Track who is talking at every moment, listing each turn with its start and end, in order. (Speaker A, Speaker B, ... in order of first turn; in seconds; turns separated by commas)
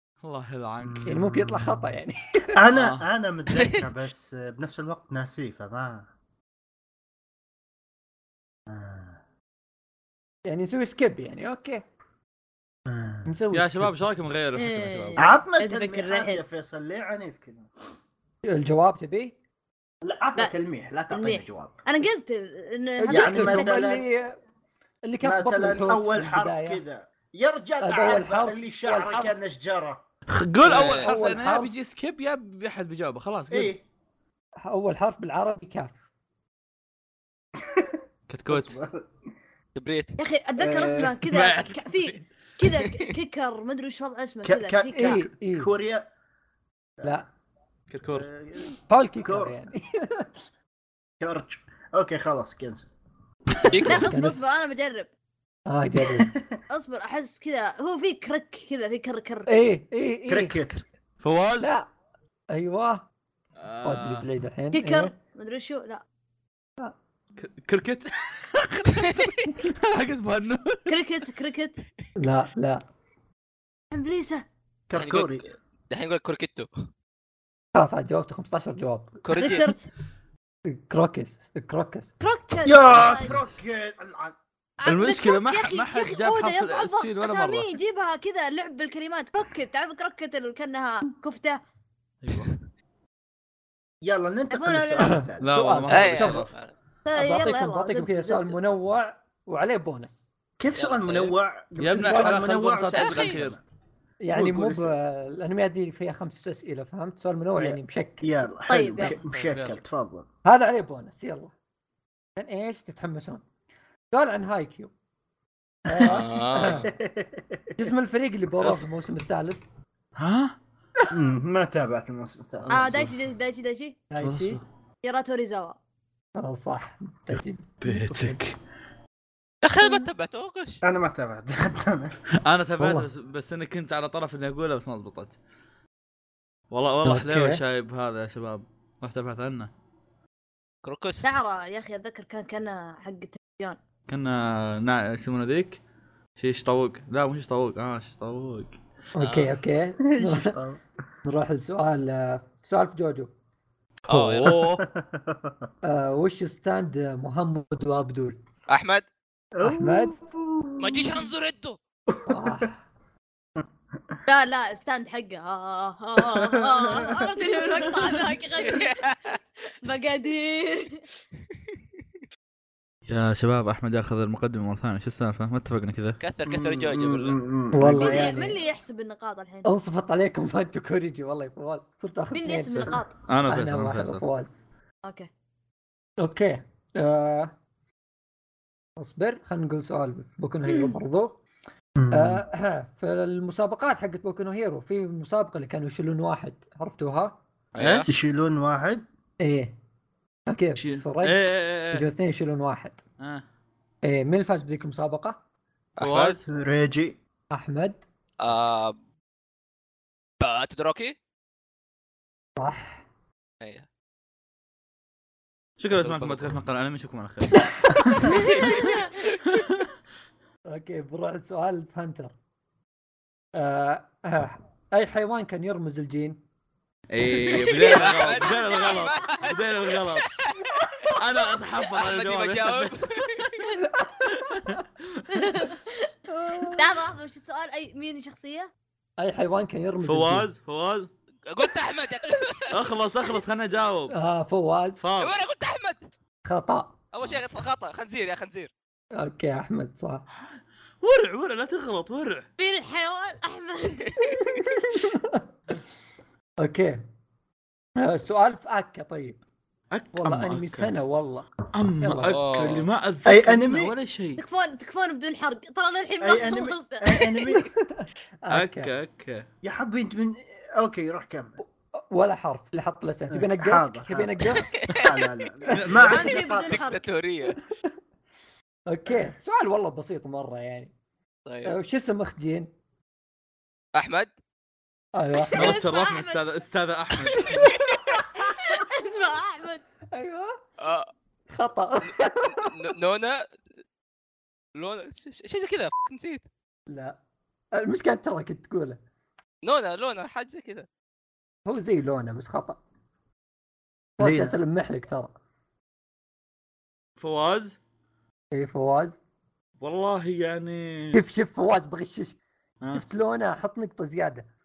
Speaker A: 0.2-1.2, Speaker B: 0.8-1.8, Speaker C: 1.1-2.6, Speaker B: 2.5-6.1, Speaker A: 2.7-3.1, Speaker D: 3.5-3.9, Speaker B: 8.7-9.2, Speaker C: 10.5-11.8, Speaker B: 12.9-13.3, Speaker C: 13.3-14.0, Speaker A: 13.5-15.2, Speaker E: 14.6-16.4, Speaker B: 15.2-17.7, Speaker C: 18.5-19.4, Speaker B: 20.0-21.7, Speaker E: 21.1-23.8, Speaker C: 23.0-24.3, Speaker B: 23.1-24.0, Speaker C: 25.1-26.8, Speaker B: 25.2-30.0, Speaker C: 27.8-29.4, Speaker A: 30.3-33.7, Speaker C: 30.6-31.7, Speaker D: 30.7-31.1, Speaker B: 33.5-33.8, Speaker C: 34.6-36.0, Speaker B: 37.6-38.0, Speaker A: 38.3-38.8, Speaker B: 38.5-39.1, Speaker D: 39.8-40.2, Speaker E: 40.2-45.2, Speaker B: 40.6-41.2, Speaker A: 41.3-42.2, Speaker D: 42.7-43.1, Speaker B: 44.4-46.1, Speaker C: 44.9-45.7, Speaker A: 47.9-48.3, Speaker B: 48.1-49.5, Speaker C: 48.9-50.3, Speaker B: 51.2-52.9, Speaker D: 53.7-54.1, Speaker E: 53.8-55.1, Speaker C: 53.9-54.5, Speaker C: 55.7-56.3, Speaker B: 56.0-56.6, Speaker E: 56.7-59.5, Speaker C: 59.5-60.6, Speaker B: 60.3-60.8, Speaker A: 61.2-61.7, Speaker C: 61.6-61.9, Speaker C: 62.5-63.1, Speaker A: 63.6-64.3, Speaker C: 63.8-65.1, Speaker E: 64.7-66.0, Speaker A: 67.4-71.0, Speaker D: 68.9-69.5, Speaker E: 70.9-71.8, Speaker C: 72.2-72.8, Speaker E: 73.9-74.5, Speaker B: 74.9-75.5, Speaker D: 75.0-76.7, Speaker C: 77.8-79.2, Speaker D: 79.2-79.7, Speaker E: 79.3-79.9, Speaker C: 80.7-82.1, Speaker E: 82.2-83.4, Speaker B: 82.7-84.4, Speaker E: 84.8-91.6, Speaker A: 84.9-87.7, Speaker D: 92.3-92.6, Speaker B: 94.0-95.5, Speaker E: 94.5-95.3, Speaker C: 95.0-96.5, Speaker A: 95.4-96.5, Speaker D: 95.9-96.7, Speaker E: 97.0-98.6, Speaker C: 97.2-100.3, Speaker B: 100.6-103.6, Speaker D: 100.8-101.3, Speaker A: 101.8-103.6, Speaker C: 102.0-102.4, Speaker D: 102.9-103.4, Speaker C: 104.2-108.3, Speaker B: 104.3-105.0, Speaker B: 107.6-110.3, Speaker E: 108.7-109.2, Speaker D: 109.1-109.8, Speaker C: 110.5-111.5, Speaker C: 112.4-113.4, Speaker C: 114.1-114.9, Speaker C: 115.9-116.9, Speaker B: 115.9-116.2, Speaker D: 116.0-116.9, Speaker B: 116.8-117.9, Speaker C: 117.8-119.6, Speaker A: 118.6-118.9, Speaker A: 120.2-120.5, Speaker B: 121.1-122.9, Speaker E: 122.7-124.0, Speaker C: 124.1-124.6, Speaker A: 124.2-124.6, Speaker E: 125.0-125.8, Speaker C: 126.4-128.4, Speaker A: 127.8-128.6, Speaker D: 129.6-130.8, Speaker B: 130.8-132.2, Speaker A: 132.4-135.4, Speaker C: 132.8-133.1, Speaker A: 136.7-139.7, Speaker C: 137.0-137.6, Speaker D: 140.8-141.3, Speaker E: 141.2-143.8, Speaker A: 144.1-145.8, Speaker A: 146.4-148.8, Speaker C: 149.2-150.6, Speaker D: 149.2-149.5, Speaker B: 150.0-150.8, Speaker C: 151.2-153.3, Speaker A: 154.1-154.8, Speaker D: 154.1-154.6, Speaker B: 154.5-155.7, Speaker C: 155.8-158.4, Speaker D: 158.7-159.1, Speaker B: 159.6-161.3, Speaker C: 159.6-160.1, Speaker D: 160.8-161.8, Speaker B: 162.1-162.7, Speaker C: 162.3-162.8, Speaker B: 163.6-164.2, Speaker E: 164.3-169.0, Speaker B: 166.2-167.6, Speaker D: 168.6-169.4, Speaker E: 169.8-171.0, Speaker A: 173.1-176.2, Speaker D: 176.2-177.4, Speaker B: 176.5-178.4, Speaker C: 177.7-178.6, Speaker E: 178.0-179.7, Speaker C: 179.7-182.9, Speaker E: 182.3-183.2, Speaker A: 182.7-184.2, Speaker C: 183.4-184.6, Speaker E: 185.0-185.3, Speaker C: 186.2-187.5, Speaker C: 189.0-191.4, Speaker E: 190.7-191.0, Speaker B: 192.0-192.4, Speaker C: 192.1-197.4, Speaker D: 197.8-198.1, Speaker A: 197.8-198.1, Speaker B: 198.1-199.0, Speaker C: 199.4-199.8, Speaker C: 200.5-203.0, Speaker A: 200.8-202.1, Speaker C: 204.0-205.4, Speaker D: 206.0-206.4, Speaker A: 206.0-206.4, Speaker B: 206.5-207.2, Speaker C: 207.5-208.0, Speaker D: 208.4-209.0, Speaker D: 210.4-211.2, Speaker C: 212.6-213.0, Speaker A: 215.8-218.0, Speaker D: 216.0-216.6, Speaker C: 217.6-218.4, Speaker D: 218.3-219.2, Speaker A: 219.4-219.9, Speaker C: 220.7-222.3, Speaker C: 223.6-226.4, Speaker A: 227.1-230.3, Speaker D: 227.4-230.7, Speaker E: 228.7-229.4, Speaker A: 231.0-233.4, Speaker D: 231.8-233.5, Speaker C: 233.9-234.8, Speaker A: 234.3-235.4, Speaker E: 235.3-236.1, Speaker C: 236.3-237.0, Speaker E: 236.7-238.7, Speaker C: 239.2-240.5, Speaker A: 240.0-241.1, Speaker D: 241.5-242.9, Speaker A: 242.7-244.1, Speaker C: 244.1-245.0, Speaker A: 245.0-245.4, Speaker D: 245.2-246.0, Speaker C: 246.4-247.0, Speaker D: 247.1-248.7, Speaker C: 249.2-250.2, Speaker A: 250.4-252.4, Speaker E: 252.6-254.6, Speaker C: 254.2-255.5, Speaker C: 256.6-257.0, Speaker C: 258.0-259.4, Speaker A: 259.9-260.9, Speaker C: 260.1-261.5, Speaker A: 261.7-264.4, Speaker C: 262.0-262.4, Speaker D: 262.3-262.9, Speaker B: 263.3-263.9, Speaker E: 264.4-267.5, Speaker B: 266.2-267.7, Speaker C: 267.5-268.9, Speaker A: 268.5-269.5, Speaker B: 269.6-271.6, Speaker C: 272.0-274.7, Speaker B: 273.3-276.9, Speaker D: 274.8-275.2, Speaker A: 275.7-276.3, Speaker E: 276.1-277.0, Speaker D: 276.6-277.6, Speaker C: 278.9-280.9, Speaker D: 281.5-281.7, Speaker C: 281.6-282.7, Speaker D: 283.9-284.3, Speaker C: 285.1-285.8, Speaker E: 285.5-286.4, Speaker A: 285.6-287.7, Speaker E: 287.3-287.8, Speaker D: 287.7-288.1, Speaker C: 288.1-288.7, Speaker E: 288.3-289.8, Speaker C: 290.1-290.6, Speaker D: 290.8-291.1, Speaker C: 291.5-292.8, Speaker D: 292.5-293.6, Speaker D: 294.8-296.4, Speaker C: 296.9-297.2, Speaker C: 297.7-299.0, Speaker D: 299.6-300.9, Speaker C: 301.7-302.8, Speaker C: 304.2-305.3, Speaker B: 304.2-304.6, Speaker A: 307.2-307.8, Speaker C: 308.5-309.2, Speaker A: 309.8-311.2, Speaker C: 311.1-312.4, Speaker C: 312.9-314.5